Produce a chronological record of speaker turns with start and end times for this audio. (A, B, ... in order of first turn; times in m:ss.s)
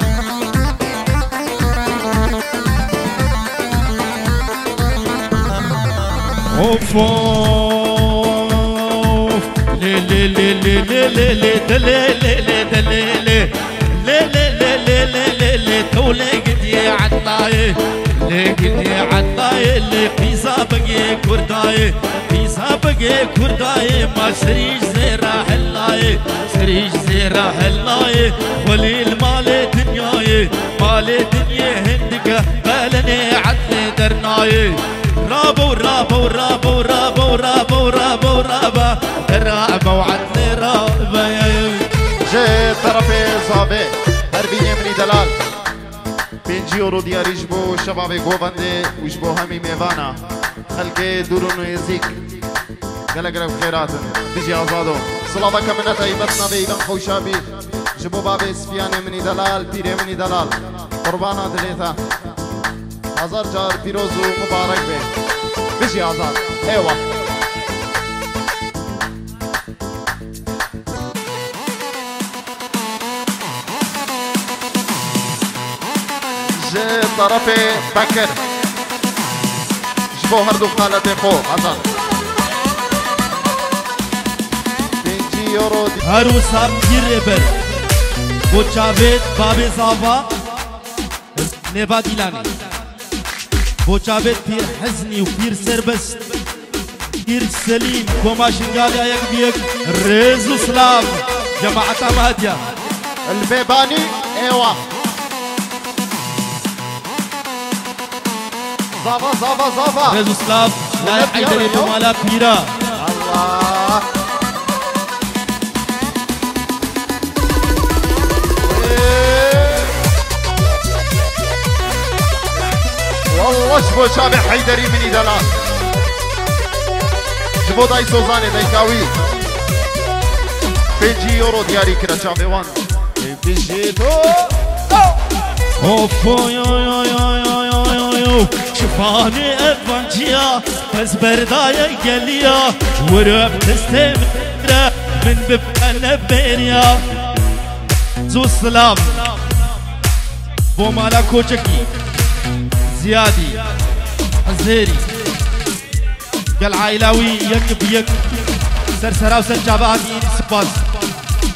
0:06.5-0:41.9 A
0:42.3-0:45.3 B
0:46.4-0:52.2 B
0:53.1-1:02.0 B
1:03.1-1:05.1 B
1:05.8-1:07.0 B
1:16.6-1:18.4 B
1:20.1-1:21.8 B
1:25.0-1:26.0 B
1:26.0-1:27.5 A
1:28.5-1:30.3 A
1:31.4-1:32.5 A
1:33.8-1:36.3 A
1:37.2-1:42.6 A
1:43.3-1:44.8 B
1:48.9-1:50.2 B
1:50.1-1:52.8 A
1:51.0-1:52.0 B
1:53.0-1:54.1 B
1:58.6-2:00.0 B
2:03.3-2:05.5 B
2:07.6-2:09.1 B
2:11.0-2:14.6 B
2:15.8-2:27.0 A
2:28.3-2:29.3 A
2:30.8-2:31.9 A
2:32.9-2:33.6 A
2:34.4-2:35.1 A
2:36.6-2:38.2 A
2:39.0-2:40.8 A